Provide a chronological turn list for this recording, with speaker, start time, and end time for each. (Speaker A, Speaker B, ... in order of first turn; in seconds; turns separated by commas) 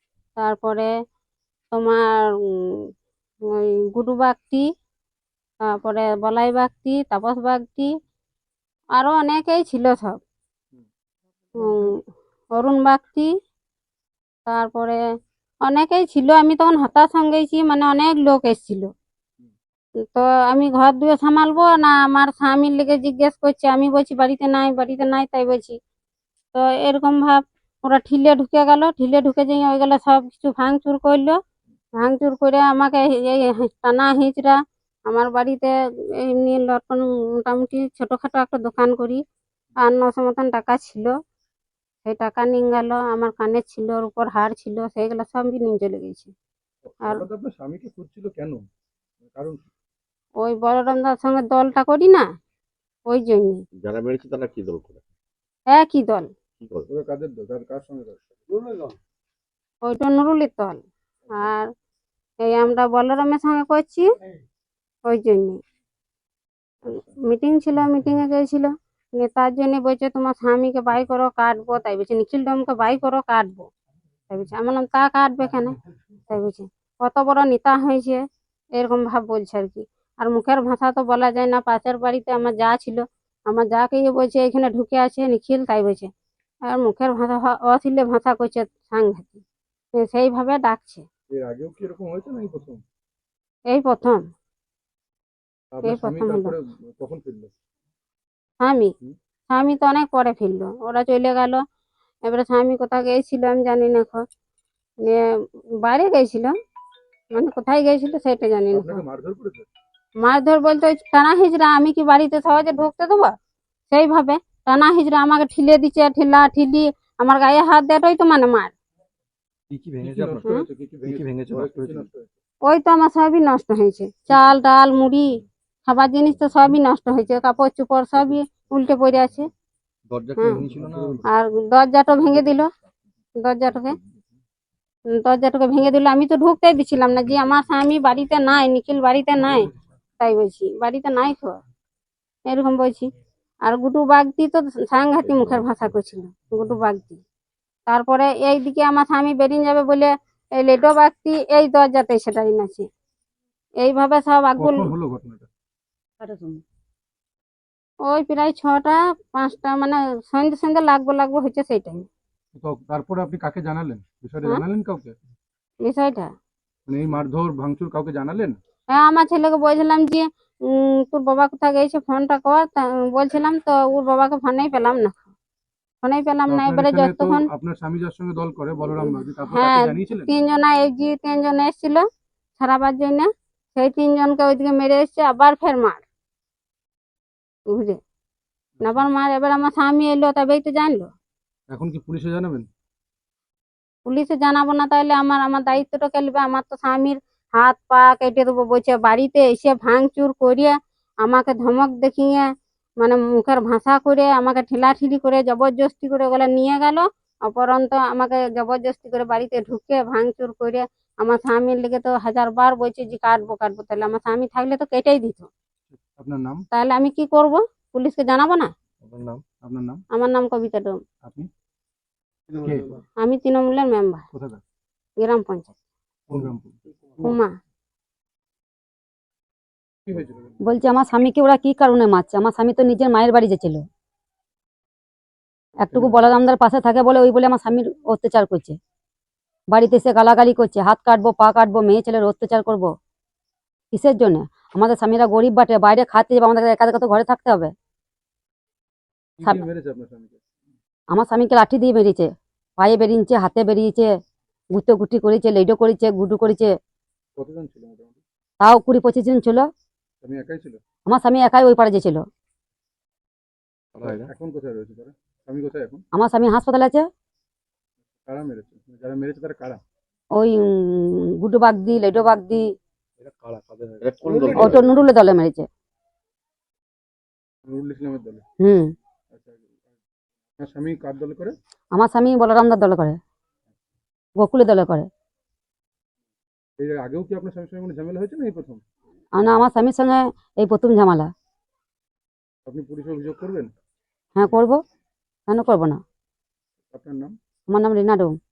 Speaker A: 0.4-0.9, Speaker A: 1.7-2.8, Speaker A: 3.5-4.7, Speaker A: 5.6-7.9, Speaker A: 8.9-10.2, Speaker A: 11.6-11.9, Speaker A: 12.5-13.3, Speaker A: 14.5-15.0, Speaker A: 15.6-18.9, Speaker A: 20.0-25.8, Speaker A: 26.5-31.4, Speaker A: 32.0-35.7, Speaker A: 36.2-39.2, Speaker A: 39.8-41.1, Speaker A: 42.0-46.3, Speaker B: 46.8-48.6, Speaker B: 49.2-49.6, Speaker A: 50.4-52.3, Speaker A: 53.1-53.6, Speaker C: 53.8-55.0, Speaker A: 55.7-56.3, Speaker C: 56.6-56.9, Speaker B: 56.9-58.6, Speaker A: 59.8-61.7, Speaker A: 62.4-64.1, Speaker A: 65.1-65.6, Speaker A: 66.9-73.7, Speaker A: 74.3-75.7, Speaker A: 76.3-78.2, Speaker A: 78.8-86.1, Speaker A: 86.7-89.4, Speaker A: 90.0-91.0, Speaker B: 91.3-92.8, Speaker A: 93.7-94.2, Speaker B: 95.7-97.5, Speaker A: 95.8-96.5, Speaker A: 98.6-98.9, Speaker A: 99.5-101.6, Speaker A: 102.3-104.2, Speaker A: 105.8-106.5, Speaker A: 107.3-109.0, Speaker B: 108.7-109.7, Speaker A: 110.2-113.3, Speaker A: 113.9-118.7, Speaker D: 119.7-122.1, Speaker B: 120.0-122.3, Speaker A: 122.7-129.5, Speaker D: 130.1-131.2, Speaker B: 130.4-131.2, Speaker A: 131.3-132.7, Speaker A: 133.4-134.0, Speaker A: 135.1-139.7, Speaker A: 140.2-141.6, Speaker A: 142.5-143.1, Speaker A: 143.6-147.2, Speaker A: 147.9-152.9, Speaker A: 153.8-154.9, Speaker B: 154.6-155.5, Speaker E: 156.2-156.6, Speaker A: 158.1-162.1, Speaker B: 162.5-165.1, Speaker A: 165.8-166.3, Speaker B: 166.9-168.6, Speaker A: 168.9-175.3, Speaker A: 176.0-177.5, Speaker B: 176.5-180.3, Speaker A: 179.5-182.0, Speaker A: 182.6-186.0, Speaker A: 187.7-188.0, Speaker A: 188.8-191.1, Speaker B: 191.7-192.7, Speaker A: 194.1-202.5, Speaker A: 203.0-215.5, Speaker B: 215.9-216.6, Speaker A: 216.7-218.7, Speaker D: 219.0-219.4, Speaker B: 219.6-220.0, Speaker A: 220.1-221.0, Speaker B: 221.2-221.5, Speaker D: 222.5-223.0, Speaker B: 222.6-223.0, Speaker A: 223.2-224.2, Speaker B: 224.3-224.6, Speaker A: 225.2-225.7, Speaker B: 226.3-227.3, Speaker A: 227.2-227.5, Speaker B: 230.1-230.6, Speaker E: 230.6-233.8, Speaker E: 235.8-238.8, Speaker B: 235.9-236.3, Speaker E: 239.7-242.9, Speaker E: 243.9-247.7, Speaker B: 249.4-250.4, Speaker E: 251.1-254.1, Speaker E: 254.7-256.7, Speaker B: 257.4-258.2, Speaker E: 258.6-259.7, Speaker B: 260.2-260.8, Speaker E: 261.1-262.3, Speaker D: 263.9-264.3, Speaker B: 264.0-266.0, Speaker E: 266.1-267.1, Speaker B: 268.2-269.8, Speaker E: 270.4-272.7, Speaker D: 273.2-274.6, Speaker C: 274.0-274.9, Speaker B: 274.2-275.0, Speaker E: 274.5-275.6, Speaker B: 277.6-278.4, Speaker E: 278.6-278.9, Speaker B: 279.3-279.6, Speaker B: 280.6-281.5, Speaker E: 281.9-283.2, Speaker E: 284.4-285.1, Speaker B: 286.8-288.8, Speaker E: 289.4-291.3, Speaker B: 292.6-293.7, Speaker E: 294.4-294.8, Speaker E: 295.5-296.0, Speaker B: 296.9-297.3, Speaker E: 297.7-298.4